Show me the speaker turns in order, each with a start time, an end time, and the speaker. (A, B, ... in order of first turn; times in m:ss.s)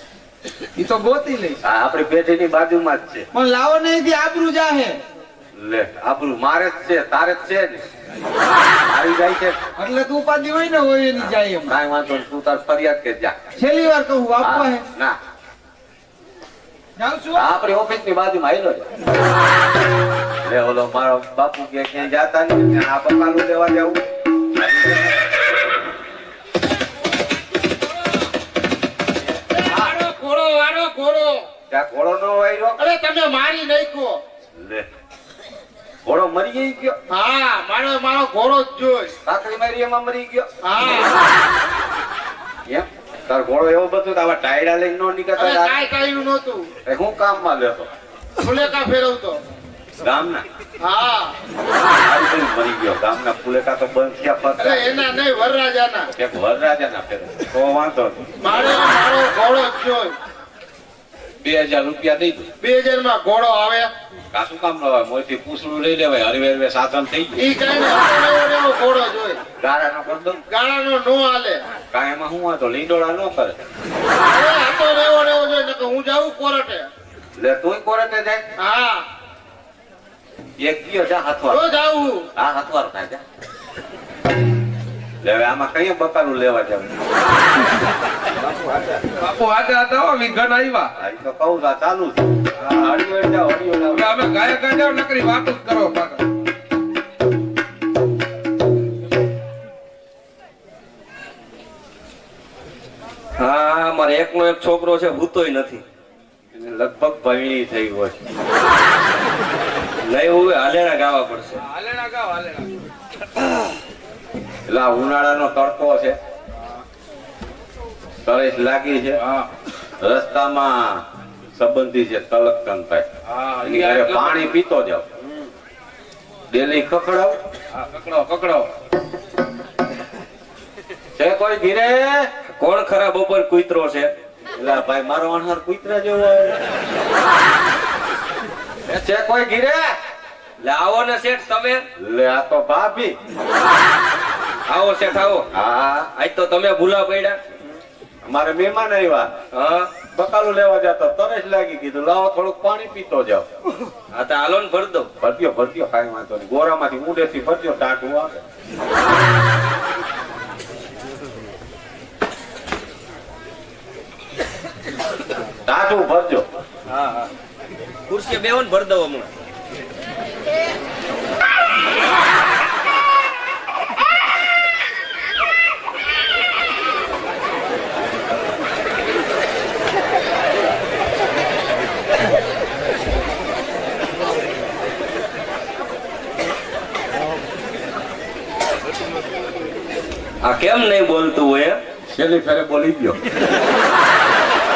0:00.8-0:01.6 A
0:01.6-0:03.2 B
0:03.3-0:05.0 A
0:05.5-0:07.8 B
0:08.7-0:09.6 B
0:09.8-0:11.8 A
0:11.7-0:13.3 B
0:13.6-0:14.8 A
0:14.4-0:15.2 B
0:17.0-0:17.5 A
0:17.3-0:18.9 B
0:20.4-0:25.3 B
0:29.6-0:31.5 C
0:31.7-0:32.8 B
0:32.8-0:34.2 C
0:34.6-0:34.8 B
0:36.0-0:37.0 B
0:37.1-0:39.1 C
0:39.2-0:40.5 B
0:40.6-0:41.2 C
0:42.7-0:45.8 B
0:45.4-0:46.7 C
0:46.8-0:47.9 B
0:48.4-0:49.4 C
0:50.0-0:50.4 B
0:50.8-0:51.3 C
0:51.9-0:55.0 B
0:54.6-0:56.1 C
0:56.1-0:58.2 B
0:58.4-1:00.2 C
1:01.4-1:02.5 B
1:02.6-1:03.9 C
1:04.3-1:07.4 B
1:07.4-1:09.4 C
1:09.6-1:10.4 B
1:10.5-1:11.6 C
1:11.9-1:13.6 B
1:14.1-1:16.9 C
1:17.4-1:18.4 B
1:18.6-1:19.0 C
1:20.6-1:21.8 B
1:21.5-1:22.3 C
1:22.4-1:23.2 B
1:25.2-1:26.9 B
1:28.9-1:30.9 D
1:31.0-1:34.2 B
1:34.0-1:36.2 D
1:34.8-1:35.8 A
1:43.4-1:45.8 E
1:46.5-1:48.2 B
1:50.0-1:51.6 E
1:51.8-1:52.6 D
1:54.7-1:56.2 B
1:58.2-1:59.2 B
2:00.0-2:01.0 B
2:01.5-2:03.0 B
2:03.3-2:04.4 E
2:03.6-2:05.0 B
2:03.8-2:04.2 D
2:06.5-2:07.4 B
2:07.8-2:08.6 D
2:08.1-2:08.6 E
2:11.2-2:12.3 B
2:12.5-2:14.1 E
2:14.5-2:16.6 B
2:18.8-2:19.9 B
2:20.6-2:21.8 E
2:22.0-2:23.1 B
2:24.7-2:25.5 E
2:25.5-2:26.1 B
2:26.1-2:27.4 E
2:28.2-2:29.3 B
2:29.5-2:29.9 E
2:30.1-2:33.4 B
2:34.1-2:35.1 E
2:35.2-2:38.4 B
2:45.6-2:46.4 B
2:46.9-2:47.3 E
2:48.1-2:49.3 E
3:10.4-3:11.8 E
3:12.1-3:13.2 B